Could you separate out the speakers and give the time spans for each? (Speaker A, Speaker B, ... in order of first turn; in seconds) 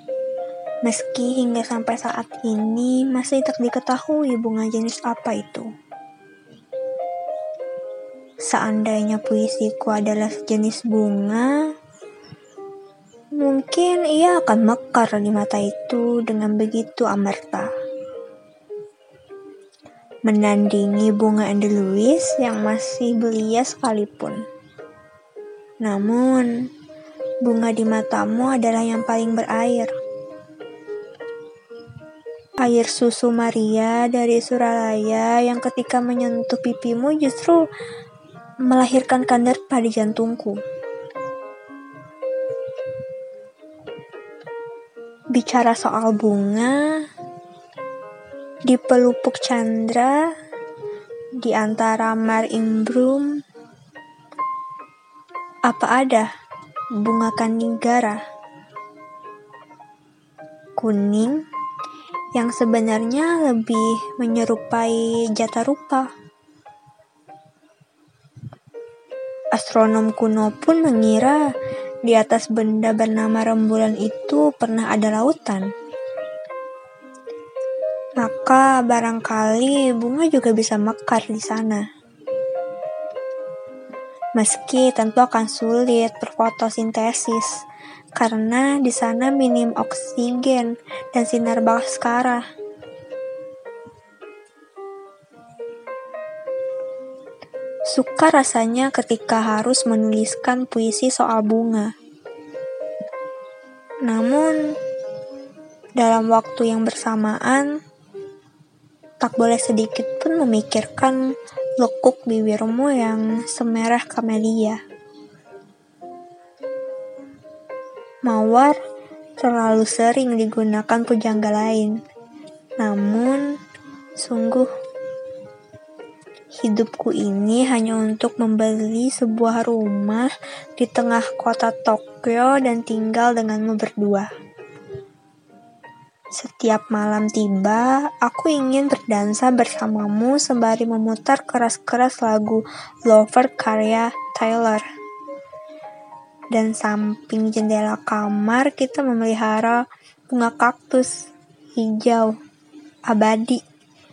Speaker A: 0.8-5.7, 8.4-11.5, 13.4-17.7, 20.2-24.4, 25.8-26.5, 27.4-29.9, 32.6-37.6, 38.7-40.6, 45.3-46.8, 48.7-50.3, 51.4-53.4, 55.7-56.3, 57.0-58.2, 60.8-61.4, 62.3-66.1, 69.5-71.5, 72.0-75.7, 78.2-81.8, 84.3-87.6, 88.1-92.4, 97.9-101.9, 104.0-104.6, 106.0-107.7, 109.2-111.2, 111.8-114.8, 118.2-118.8, 119.4-122.0, 122.8-123.5, 124.2-124.7, 126.6-134.3, 136.3-144.8, 146.5-151.1, 151.7-152.3, 153.1-153.6